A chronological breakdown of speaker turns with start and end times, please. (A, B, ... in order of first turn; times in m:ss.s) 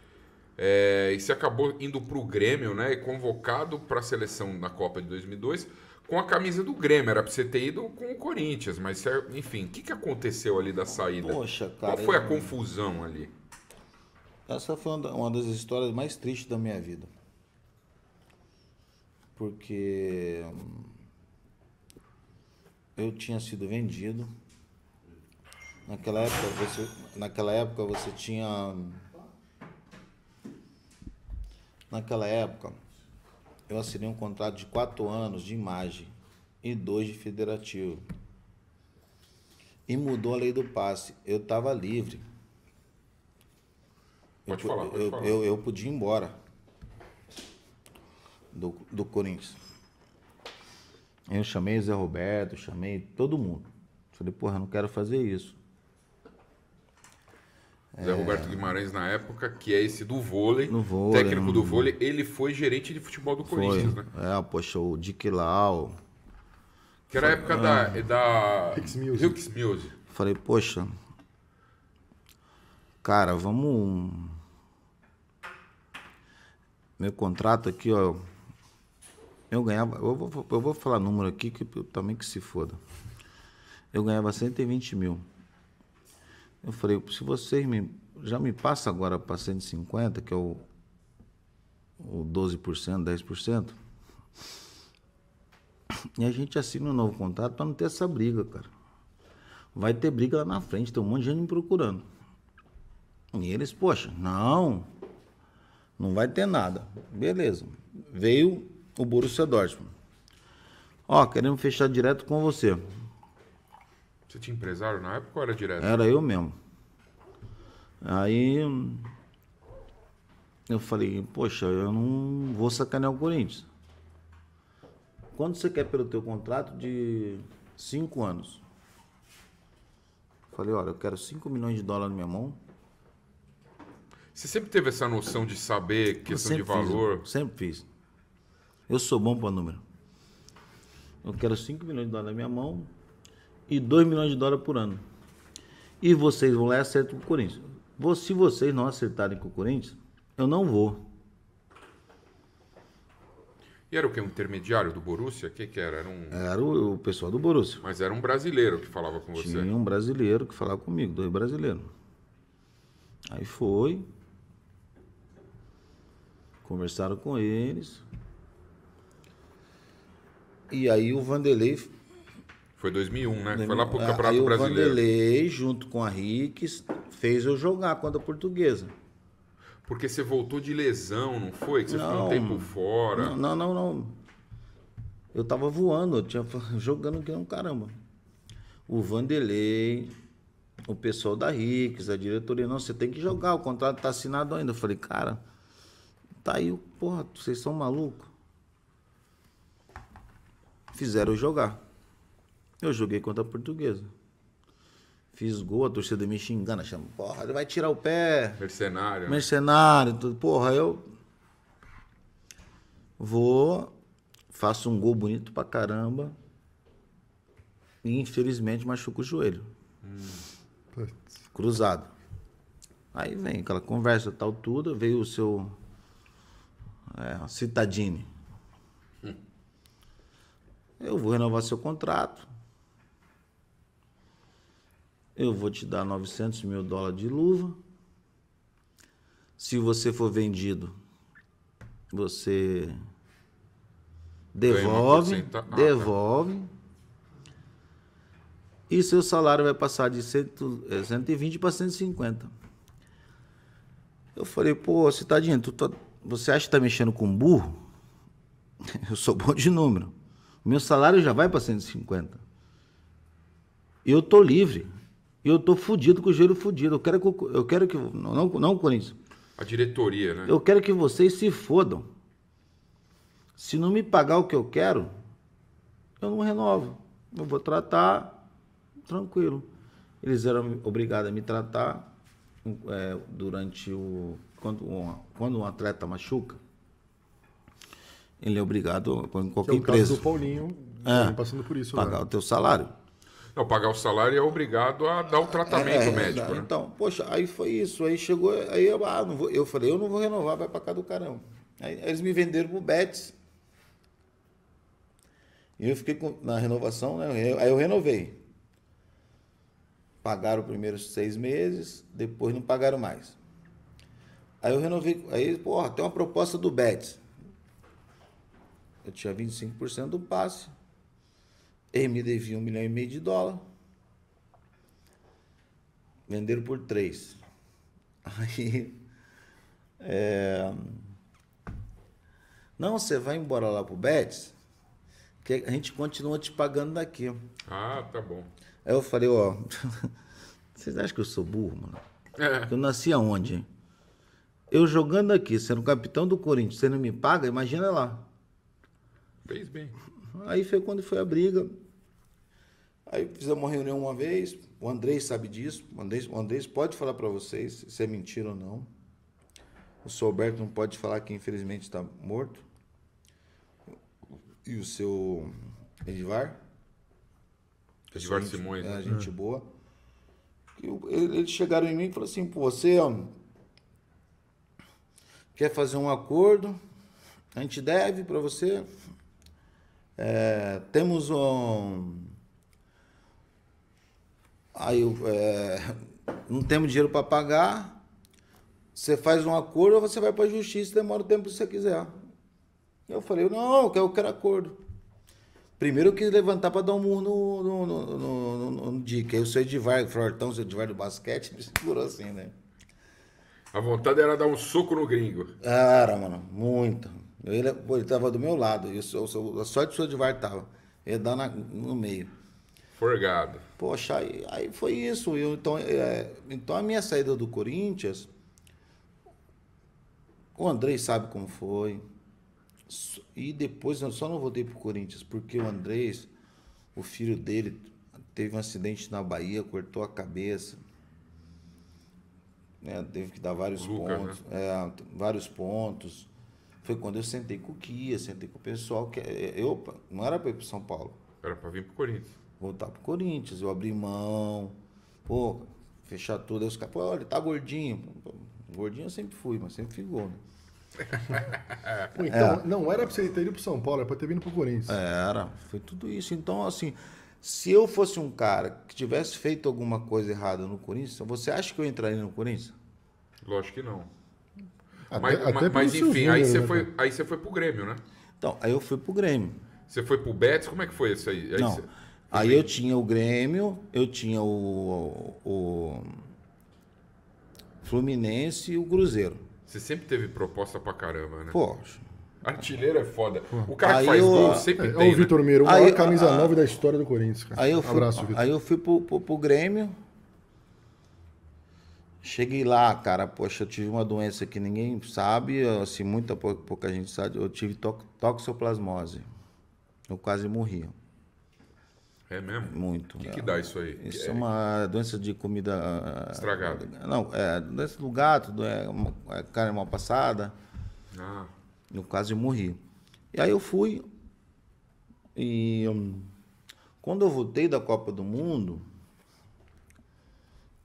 0:00.6-0:13.3 A
0:11.0-0:12.6 B
0:14.5-0:17.1 B
0:19.4-0:20.9 B
0:23.0-0:24.3 B
0:25.8-0:29.0 B
0:31.9-0:32.8 B
0:33.7-0:38.0 B
0:39.9-0:42.2 B
0:44.4-0:46.3 B
0:44.5-0:45.4 A
0:48.5-0:49.6 B
0:51.3-0:55.6 B
0:57.9-0:58.8 B
0:58.0-1:04.0 A
1:00.7-1:01.9 B
1:03.4-1:06.0 B
1:07.1-1:09.9 A
1:07.1-1:08.0 B
1:08.7-1:09.4 C
1:10.1-1:10.9 B
1:13.0-1:14.4 B
1:17.0-1:18.2 B
1:19.5-1:22.8 B
1:23.9-1:25.2 B
1:26.6-1:30.6 B
1:32.0-1:33.7 B
1:36.2-1:38.7 B
1:39.7-1:42.0 B
1:43.3-1:44.9 B
1:46.0-1:49.9 B
1:51.1-1:52.8 B
1:54.3-1:56.0 A
1:55.8-1:56.6 B
1:58.0-1:59.1 B
2:00.7-2:03.7 B
2:05.3-2:08.6 B
2:10.5-2:12.6 B
2:14.3-2:17.2 A
2:16.2-2:17.9 B
2:18.9-2:19.8 B
2:21.2-2:22.9 B
2:23.7-2:25.0 B
2:26.0-2:31.0 B
2:33.9-2:36.4 A
2:36.3-2:37.8 B
2:37.8-2:39.7 A
2:39.3-2:41.9 B
2:43.3-2:44.0 B
2:46.6-2:48.0 B
2:50.7-2:51.9 B
2:52.8-2:55.0 A
2:53.5-2:58.9 B
2:59.8-3:03.4 A
3:01.9-3:04.1 B
3:05.3-3:08.0 B
3:08.9-3:10.1 B
3:10.9-3:15.4 B
3:16.4-3:18.3 B
3:20.9-3:21.8 B
3:22.8-3:24.1 B
3:25.3-3:28.6 B
3:28.6-3:29.4 A
3:29.3-3:31.0 B
3:33.2-3:33.9 B
3:34.5-3:36.3 B
3:38.0-3:39.6 B
3:40.0-3:40.4 A
3:41.5-3:42.1 B
3:43.1-3:45.7 B
3:47.1-3:48.3 B
3:51.0-3:52.5 B
3:55.4-3:57.8 B
3:59.6-4:00.9 B
4:02.1-4:02.9 B
4:04.5-4:06.7 B
4:04.6-4:06.1 A
4:08.9-4:12.5 B
4:14.3-4:17.8 B
4:18.8-4:20.1 B
4:20.6-4:22.4 B
4:24.0-4:24.9 B
4:25.4-4:29.2 B
4:29.6-4:30.5 A
4:30.4-4:32.1 B
4:33.6-4:35.1 B
4:36.2-4:38.4 B
4:39.1-4:39.7 B
4:40.2-4:42.1 B
4:42.6-4:46.6 B
4:48.4-4:50.3 B
4:49.6-4:52.2 C
4:51.0-4:51.4 B
4:51.9-4:52.9 B
4:53.5-4:56.7 A
4:55.4-5:03.3 B
5:05.8-5:08.4 B
5:10.2-5:13.4 B
5:14.6-5:17.2 B
5:19.0-5:20.7 B
5:21.9-5:23.6 B
5:26.3-5:27.4 B
5:28.2-5:29.0 B
5:30.0-5:31.1 B
5:32.8-5:34.5 B
5:35.4-5:37.4 B
5:37.6-5:38.5 A
5:38.8-5:40.1 B
5:40.7-5:42.0 B
5:42.4-5:42.7 A
5:42.7-5:43.6 B
5:44.7-5:48.3 B
5:49.4-5:50.0 A
5:50.3-5:51.7 B
5:53.1-5:58.9 B
6:00.0-6:02.6 B
6:04.6-6:05.5 B
6:06.0-6:06.6 B
6:08.1-6:09.6 B
6:08.1-6:09.2 A
6:10.8-6:13.3 B
6:15.5-6:16.8 B
6:17.5-6:18.9 B
6:20.2-6:22.3 B
6:24.7-6:28.0 B
6:28.9-6:32.1 B
6:33.1-6:34.8 B
6:35.8-6:42.5 B
6:43.7-6:45.5 A
6:45.6-6:52.3 B
6:53.0-6:53.6 A
6:53.8-6:58.3 B
7:00.6-7:02.0 B
7:02.9-7:06.3 B
7:06.9-7:10.8 B
7:12.8-7:16.3 B
7:13.8-7:14.4 A
7:16.8-7:21.2 B
7:21.4-7:22.3 A
7:22.6-7:30.4 B
7:31.4-7:32.0 A
7:32.1-7:35.0 C
7:32.3-7:32.6 B
7:34.9-7:42.7 B
7:43.4-7:44.1 A
7:45.1-7:46.9 C
7:45.1-7:48.0 A
7:48.4-7:49.6 B
7:49.9-7:52.7 A
7:51.6-7:56.2 B
7:57.8-7:59.4 B
7:59.7-8:01.6 A
8:01.5-8:02.0 B
8:02.4-8:05.4 A
8:03.8-8:04.7 B
8:04.3-8:08.4 C
8:05.6-8:06.7 B
8:07.5-8:09.9 B
8:12.2-8:19.2 B
8:20.1-8:20.9 B
8:22.3-8:24.4 A
8:22.6-8:30.5 B
8:26.3-8:26.9 A
8:31.1-8:31.5 A
8:31.9-8:32.8 B
8:33.3-8:34.0 B
8:35.4-8:36.3 B
8:37.0-8:38.8 B